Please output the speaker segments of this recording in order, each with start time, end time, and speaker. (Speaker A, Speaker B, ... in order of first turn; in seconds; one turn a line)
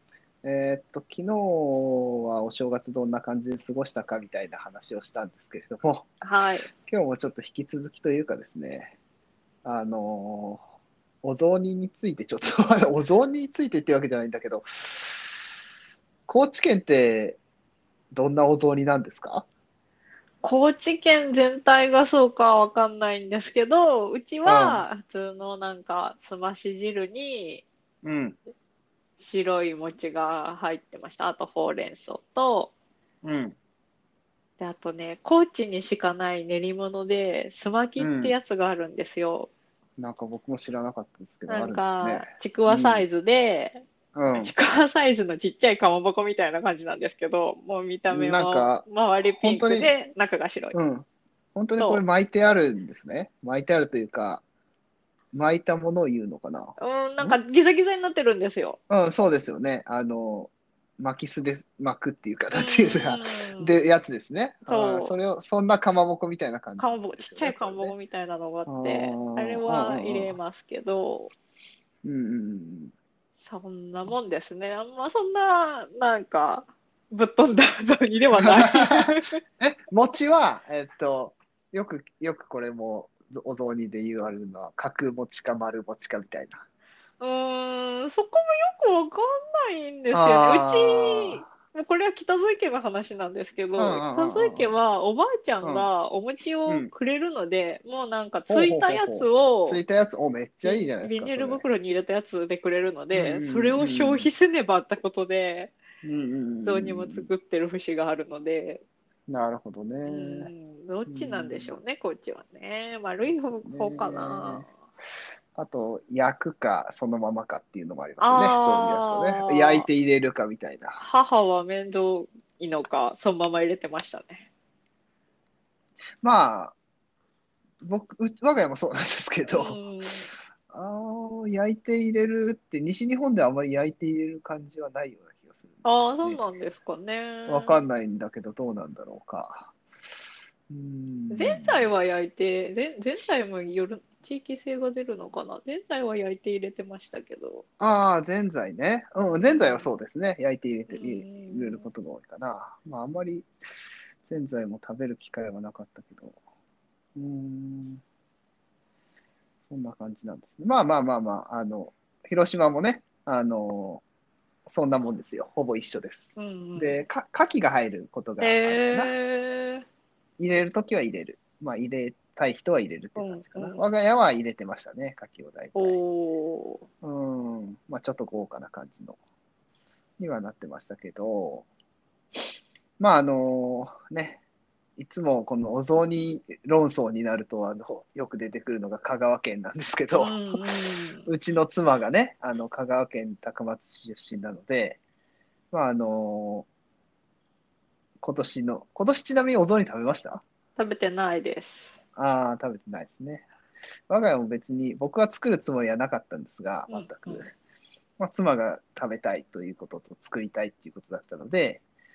Speaker A: 0.4-6.1
Speaker B: 6.2-6.7
Speaker A: 6.8-8.9
Speaker A: 9.6-10.6
Speaker A: 11.2-15.4
Speaker A: 16.3-17.4
Speaker A: 18.1-19.5
Speaker B: 20.4-27.6
Speaker A: 24.5-24.9
Speaker A: 28.0-28.4
Speaker B: 29.2-32.7
Speaker A: 33.2-33.5
Speaker B: 34.6-39.5
Speaker A: 38.0-38.4
Speaker A: 40.0-43.0
Speaker B: 41.5-50.8
Speaker A: 44.1-44.5
Speaker A: 48.1-49.9
Speaker A: 50.7-54.4
Speaker B: 51.8-52.0
Speaker A: 55.3-57.4
Speaker B: 56.8-58.8
Speaker A: 58.9-67.9
Speaker B: 62.5-63.8
Speaker B: 64.7-65.2
Speaker B: 66.8-71.3
Speaker A: 68.7-70.4
Speaker A: 72.0-72.9
Speaker B: 73.4-79.4
Speaker A: 78.4-86.6
Speaker B: 87.2-99.8
Speaker A: 90.1-91.4
Speaker A: 93.8-94.8
Speaker A: 95.6-95.9
Speaker A: 96.7-96.9
Speaker A: 98.5-101.6
Speaker B: 100.6-105.8
Speaker A: 103.1-104.3
Speaker A: 106.0-107.3
Speaker B: 106.6-108.8
Speaker A: 109.3-110.5
Speaker B: 110.1-114.7
Speaker A: 111.1-111.8
Speaker A: 113.2-114.7
Speaker A: 115.5-121.0
Speaker B: 118.2-119.9
Speaker B: 121.0-124.5
Speaker A: 126.2-126.8
Speaker A: 127.8-129.8
Speaker B: 129.5-130.3
Speaker A: 130.7-136.4
Speaker B: 135.8-137.8
Speaker A: 137.5-139.8
Speaker A: 140.7-141.9
Speaker B: 141.3-147.6
Speaker A: 147.8-153.5
Speaker B: 149.4-149.9
Speaker B: 150.9-151.9
Speaker A: 154.3-156.4
Speaker A: 157.2-158.0
Speaker A: 159.6-164.0
Speaker A: 164.7-169.1
Speaker B: 166.4-167.0
Speaker B: 168.4-169.9
Speaker A: 170.4-176.0
Speaker B: 173.2-173.8
Speaker B: 175.8-176.9
Speaker A: 177.0-179.2
Speaker A: 180.2-181.7
Speaker A: 183.0-184.4
Speaker A: 185.0-195.0
Speaker B: 190.2-191.3
Speaker A: 195.7-196.7
Speaker A: 198.2-200.4
Speaker B: 200.8-201.9
Speaker A: 202.2-203.5
Speaker A: 204.1-207.5
Speaker B: 206.9-207.5
Speaker A: 208.2-211.8